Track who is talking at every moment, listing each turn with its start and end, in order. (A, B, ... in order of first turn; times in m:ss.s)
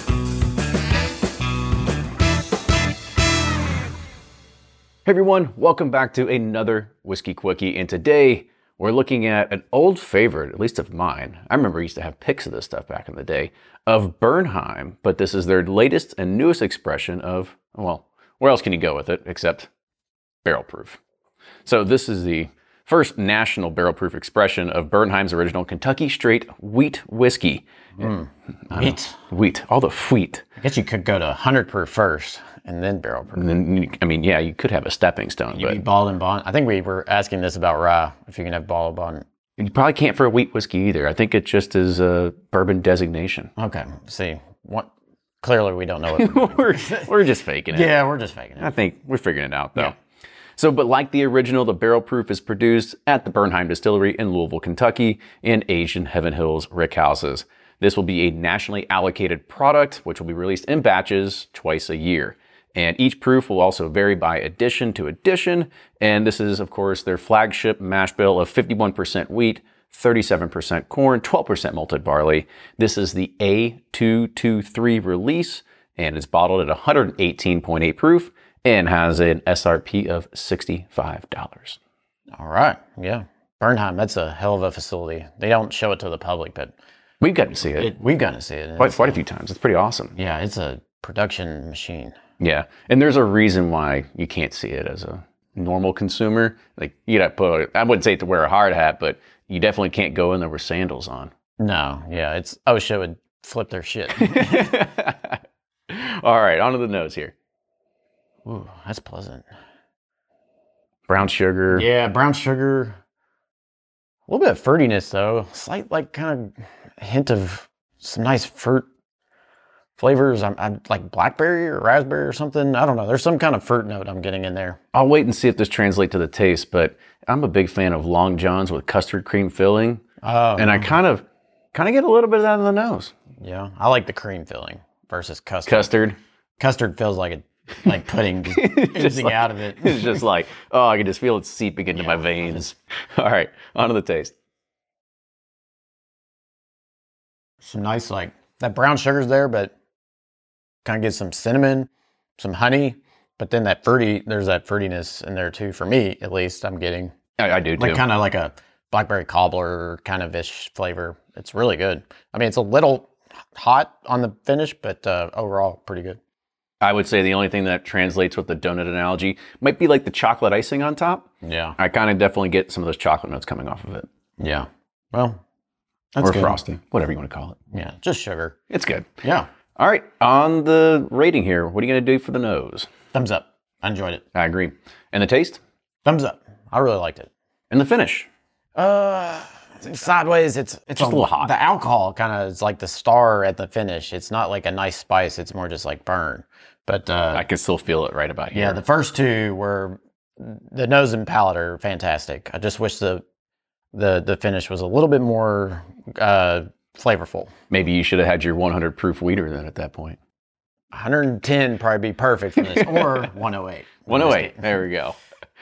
0:05.0-0:19.7 A
0:20.4-0:21.0 A
0:21.6-0:28.1 A
0:28.0-0:29.2 B
0:28.7-0:30.4 A
0:30.6-0:33.5 B
0:33.4-0:35.8 A
0:35.5-0:39.2 B
0:39.6-0:43.5 A
0:43.6-0:44.9 B
0:45.4-0:47.1 B
0:46.1-0:47.9 A
0:47.7-0:48.7 B
0:48.6-0:50.0 A
0:50.6-1:21.8 A
1:22.3-1:26.7 B
1:27.2-1:27.9 A
1:27.7-1:29.2 B
1:28.8-1:30.2 A
1:30.1-1:32.2 B
1:32.4-1:41.3 A
1:41.6-1:44.7 B
1:44.2-1:47.3 A
1:48.4-1:49.4 B
1:51.1-1:51.9 A
1:51.7-1:53.0 B
1:54.3-1:58.8 B
2:00.0-2:04.8 B
2:04.9-2:10.0 A
2:10.2-2:11.0 B
2:10.6-2:13.1 A
2:13.4-2:15.9 B
2:15.7-2:16.2 A
2:16.6-2:20.2 B
2:18.5-2:24.3 A
2:22.0-2:22.7 B
2:27.6-2:29.7 B
2:30.8-2:37.1 B
2:37.4-2:38.0 A
2:37.8-2:46.2 B
2:46.8-2:54.1 A
2:51.4-2:51.8 B
2:54.4-2:55.4 B
2:56.1-2:56.6 B
2:56.2-2:57.6 A
2:57.7-2:58.6 B
2:58.7-2:59.1 A
2:59.2-2:59.5 B
2:59.8-3:02.9 A
3:03.1-3:04.2 B
3:04.3-3:05.6 A
3:06.0-3:07.3 B
3:07.7-3:08.3 A
3:08.8-3:17.4 B
3:11.0-3:11.5 A
3:17.3-3:18.8 A
3:18.5-3:23.2 B
3:23.9-3:27.5 B
3:27.7-3:30.2 A
3:30.9-3:34.8 B
3:32.8-3:33.1 A
3:34.1-3:35.2 A